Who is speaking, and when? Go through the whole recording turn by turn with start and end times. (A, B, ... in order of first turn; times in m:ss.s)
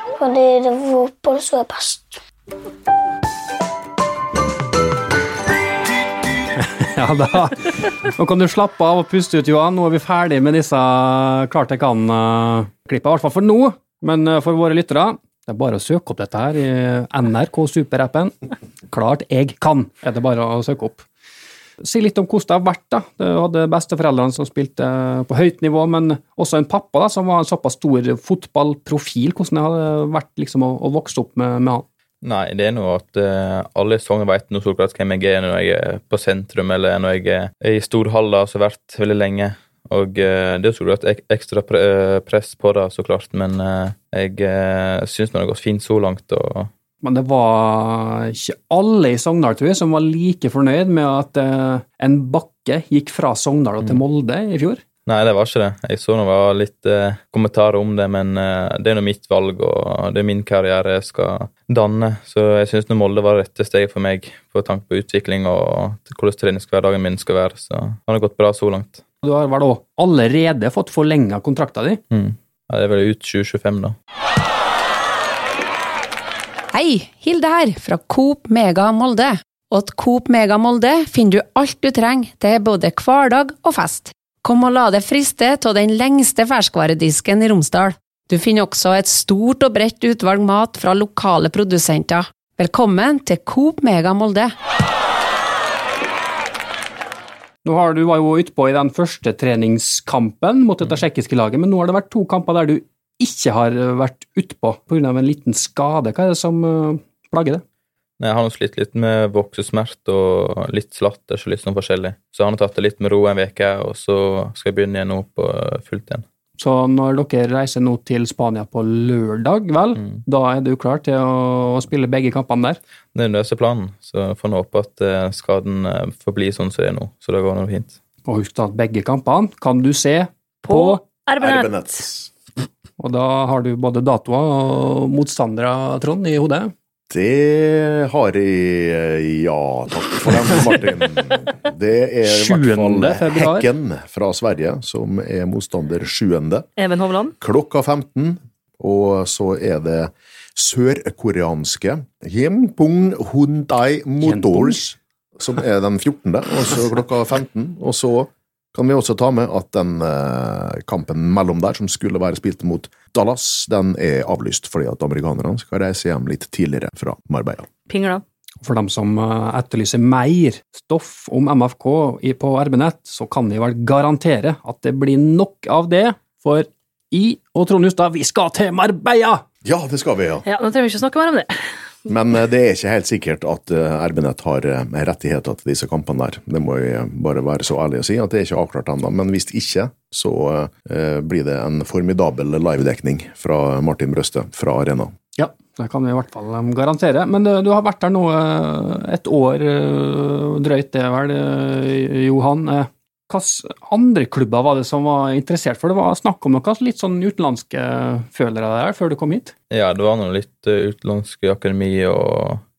0:00.2-0:02.2 A
0:06.6-0:18.3 B
0:18.9-0:21.1 B
0:21.8-0:31.9 B
0:32.2-0:46.7 C
0:47.0-0:54.8 B
0:55.1-1:09.0 C
1:09.2-1:12.0 B
1:12.1-1:14.0 C
1:16.7-1:34.5 D
1:37.6-1:47.6 B
1:48.2-1:56.2 C
1:56.6-2:02.8 B
2:00.0-2:00.2 C
2:03.1-2:08.0 C
2:08.3-2:11.0 B
2:10.6-2:12.0 E
2:11.4-2:12.3 F
2:13.0-2:16.7 B
2:17.1-2:26.7 F
2:22.2-2:23.7 B
2:26.8-2:27.4 E
2:27.4-2:34.8 F
2:34.2-2:35.0 B
2:35.4-2:47.7 F
2:47.9-2:48.2 E
2:48.6-2:59.4 B
2:59.6-3:00.4 F
3:00.4-3:01.7 E
3:02.1-3:15.1 F
3:15.4-3:29.5 B
3:29.7-3:32.6 C